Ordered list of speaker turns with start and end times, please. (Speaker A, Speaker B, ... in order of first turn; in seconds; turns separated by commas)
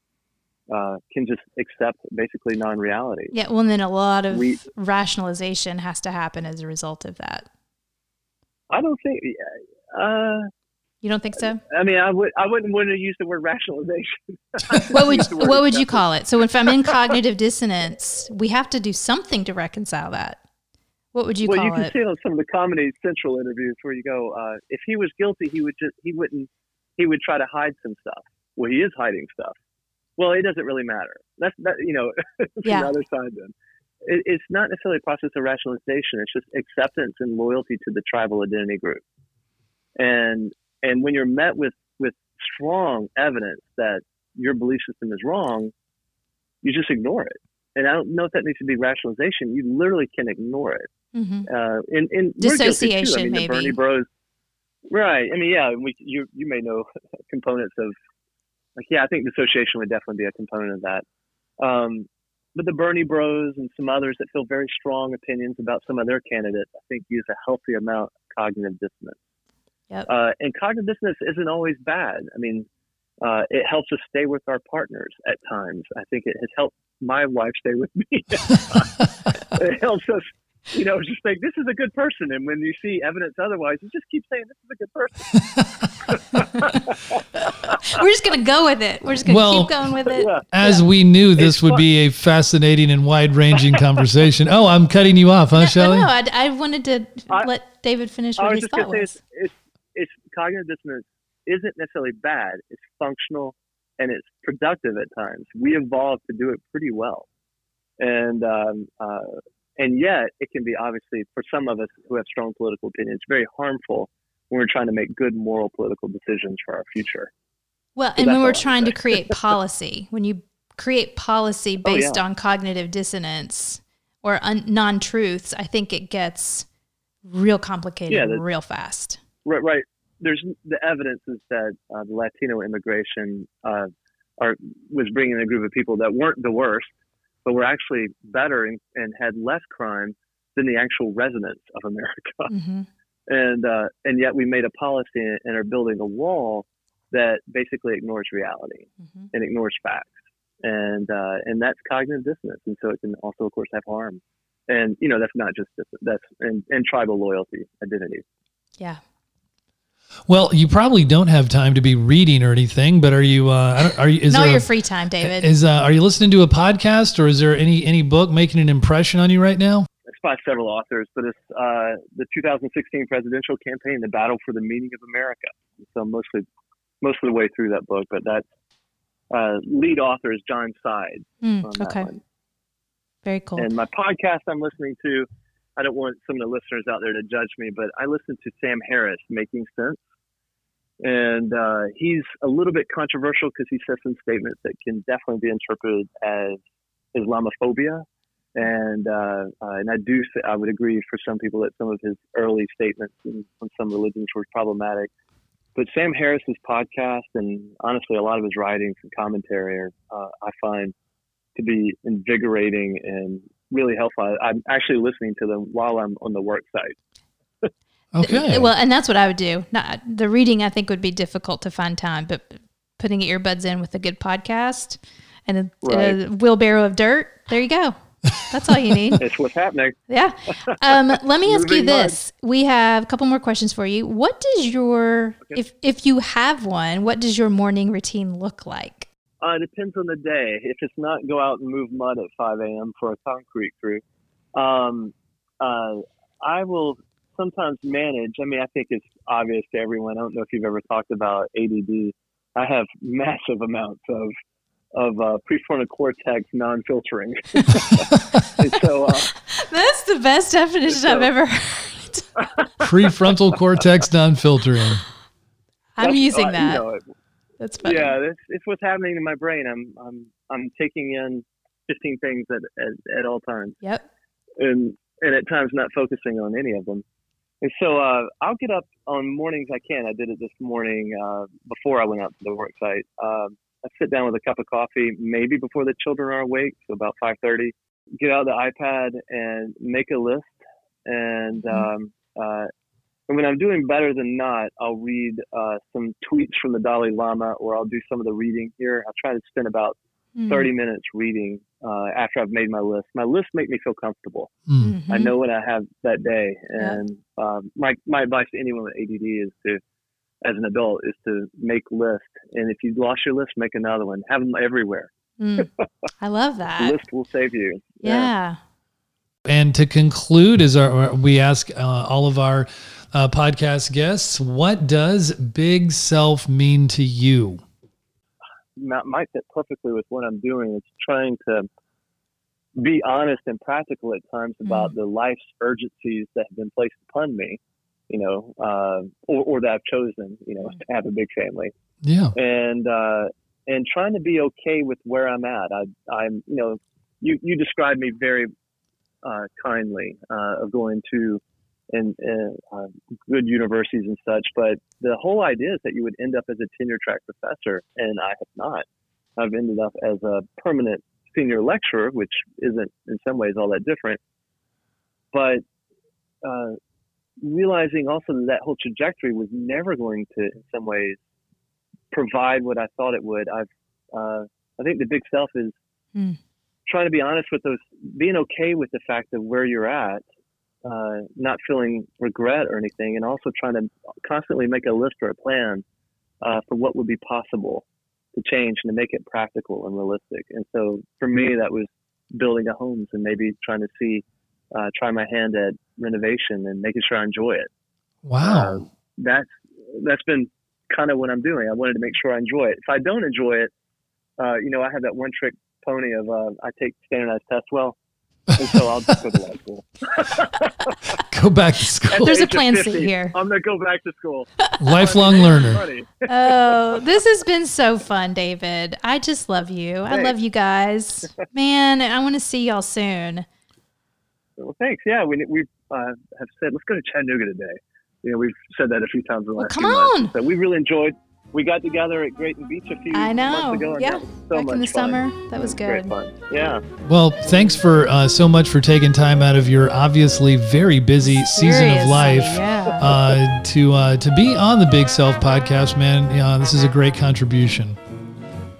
Speaker A: 0.7-3.3, Speaker B: 3.3-7.5, Speaker A: 4.3-4.6, Speaker A: 8.7-10.5, Speaker B: 11.0-11.6, Speaker A: 11.6-16.0, Speaker B: 14.9-20.4, Speaker A: 16.9-17.1, Speaker B: 21.1-21.9, Speaker A: 21.4-29.6, Speaker A: 30.2-39.0, Speaker B: 32.6-32.9, Speaker A: 40.0-45.7, Speaker A: 46.6-50.9, Speaker B: 51.1-51.5, Speaker A: 51.5-54.1, Speaker B: 52.4-53.8, Speaker A: 54.9-57.9, Speaker A: 58.8-61.0, Speaker A: 61.6-69.2, Speaker A: 70.0-72.7, Speaker A: 73.2-85.4, Speaker A: 86.0-88.0, Speaker B: 87.7-90.8, Speaker C: 89.2-89.7, Speaker A: 90.1-90.4, Speaker C: 90.5-96.1, Speaker A: 91.4-91.8, Speaker B: 95.5-99.2, Speaker A: 98.4-107.3, Speaker A: 108.0-117.3, Speaker B: 118.0-126.7, Speaker A: 118.2-119.3, Speaker A: 121.8-122.2, Speaker B: 127.2-129.2, Speaker A: 128.1-128.4, Speaker A: 129.4-136.9, Speaker A: 137.4-142.5, Speaker B: 142.5-142.9, Speaker A: 143.3-158.2, Speaker B: 149.0-149.3, Speaker C: 160.3-164.7, Speaker B: 164.3-165.5, Speaker C: 165.2-169.9, Speaker A: 170.1-176.4, Speaker A: 177.0-178.4, Speaker A: 179.3-182.2, Speaker B: 181.4-182.1, Speaker B: 183.2-183.7, Speaker A: 183.6-190.0, Speaker A: 191.0-196.6, Speaker A: 197.1-205.1, Speaker A: 205.8-210.9, Speaker A: 211.6-217.0, Speaker C: 218.1-218.7, Speaker B: 218.2-229.2, Speaker A: 225.8-226.2, Speaker A: 229.2-230.0, Speaker B: 230.1-239.1, Speaker A: 230.5-232.2, Speaker A: 239.4-244.0, Speaker A: 244.6-254.3, Speaker A: 254.9-259.3, Speaker B: 259.3-262.4, Speaker A: 260.9-261.3, Speaker A: 262.4-262.9, Speaker C: 262.8-265.0, Speaker B: 265.9-266.8, Speaker A: 266.0-267.0, Speaker B: 267.6-268.1, Speaker A: 267.8-273.8, Speaker A: 274.6-277.0, Speaker A: 277.6-292.7, Speaker A: 293.3-304.5, Speaker B: 300.3-300.7, Speaker C: 304.7-304.9, Speaker B: 304.8-305.3, Speaker A: 305.1-309.8, Speaker A: 310.4-315.7, Speaker B: 315.4-315.7, Speaker B: 316.2-317.0, Speaker A: 316.8-318.3, Speaker B: 318.0-318.6, Speaker C: 319.4-327.6, Speaker A: 328.8-331.7, Speaker A: 332.8-341.7, Speaker B: 334.6-334.9, Speaker C: 342.0-342.3, Speaker A: 342.3-348.5, Speaker A: 349.2-351.4, Speaker A: 351.9-358.9, Speaker A: 359.4-364.2, Speaker A: 365.3-365.6, Speaker A: 366.4-366.8, Speaker A: 367.4-371.2, Speaker A: 372.1-375.8, Speaker A: 376.9-380.2, Speaker A: 380.8-385.8, Speaker A: 386.4-387.8, Speaker A: 388.4-397.7, Speaker C: 398.2-398.8, Speaker A: 398.4-403.7, Speaker A: 404.4-408.0, Speaker A: 408.6-411.0, Speaker C: 411.3-412.3, Speaker A: 412.1-416.9, Speaker B: 412.2-413.3, Speaker C: 414.8-415.8, Speaker B: 416.3-423.4, Speaker A: 420.1-420.3, Speaker A: 424.6-436.8, Speaker B: 429.6-430.3, Speaker B: 433.1-436.1, Speaker C: 437.0-448.0, Speaker B: 441.3-443.1